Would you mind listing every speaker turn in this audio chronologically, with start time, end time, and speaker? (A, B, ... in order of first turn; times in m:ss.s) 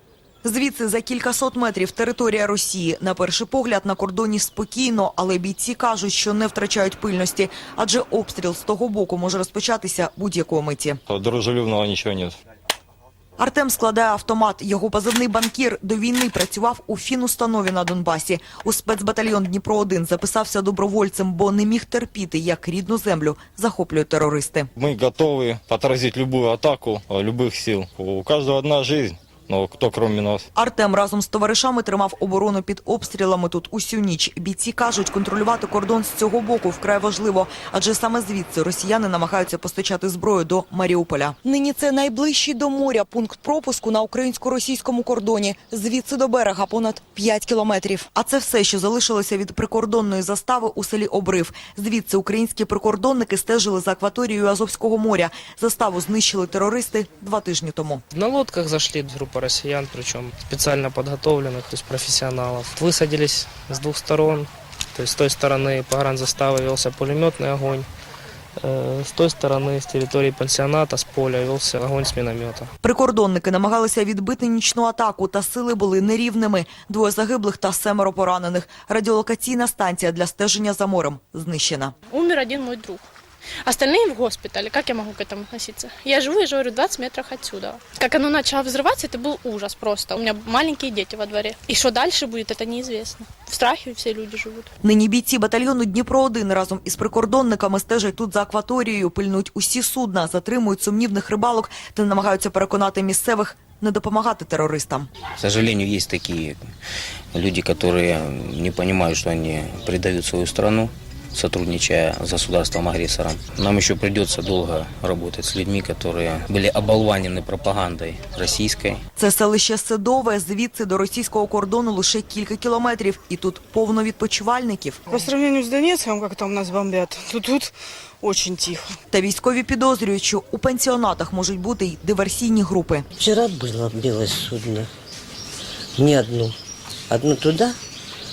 0:00.4-0:11.0 A
0:11.1-0:12.4 B
0:13.4-0:24.7 A
0:24.8-0:30.5 B
0:30.6-0:58.0 A
0:58.1-1:07.9 C
1:08.6-1:12.7 C
1:12.8-1:21.9 A
1:22.1-1:23.1 D
1:23.6-1:34.7 D
1:34.8-1:45.1 A
1:45.4-1:46.7 E
1:47.3-1:59.0 E
1:59.2-2:05.0 A
2:05.1-2:09.0 F
2:09.1-2:13.0 A
2:13.2-2:14.9 G
2:16.0-2:16.6 G
2:17.1-2:17.8 G